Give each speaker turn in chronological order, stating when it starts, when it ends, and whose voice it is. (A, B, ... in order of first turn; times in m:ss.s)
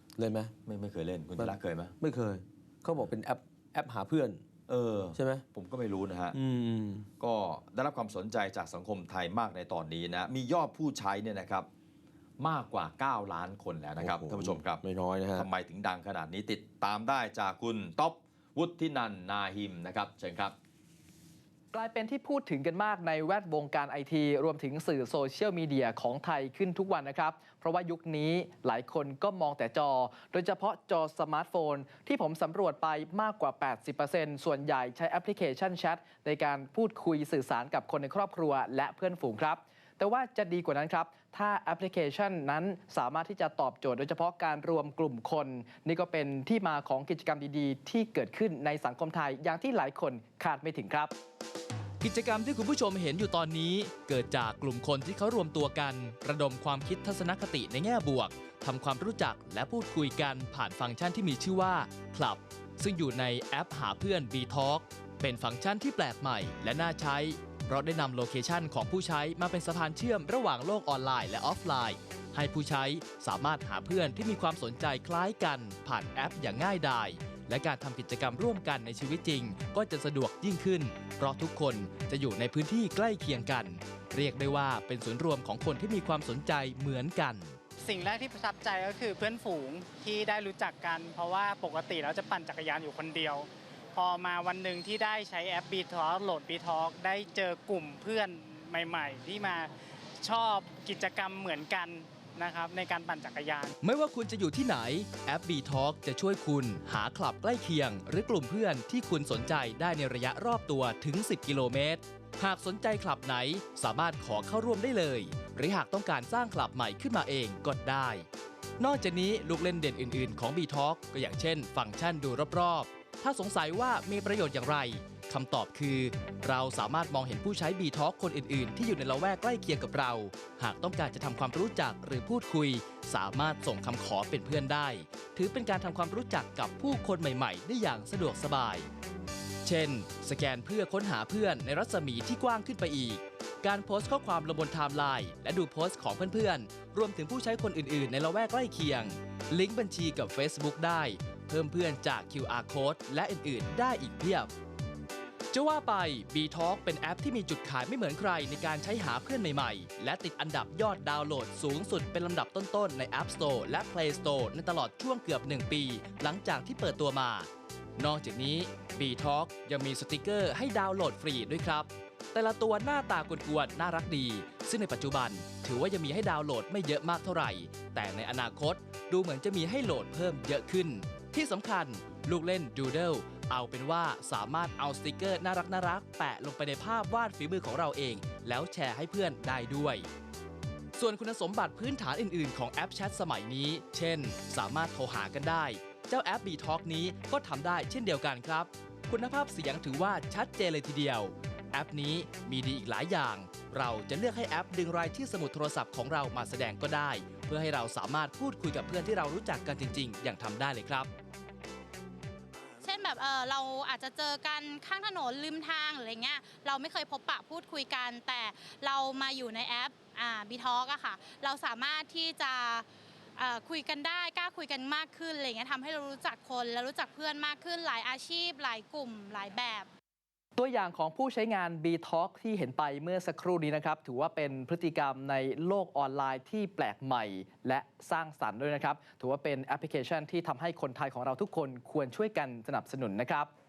0:00.2-0:00.5 A
0:00.6-0:02.0 B
0:01.4-0:04.4 A
0:04.7-0:06.4 B
0:05.1-0:05.4 A
0:06.3-0:07.0 A
0:07.2-0:11.7 B
0:12.4-0:14.8 B
0:14.0-0:15.5 A
0:15.3-0:20.5 B
0:21.7-0:51.1 C
0:52.0-1:27.6 D
1:27.8-1:43.7 E
1:43.8-1:58.2 D
1:58.8-2:18.9 D
2:19.6-2:34.5 D
2:35.5-3:10.1 D
3:11.0-3:31.1 D
3:32.8-3:42.8 F
3:43.4-3:49.9 F
3:50.6-4:03.5 C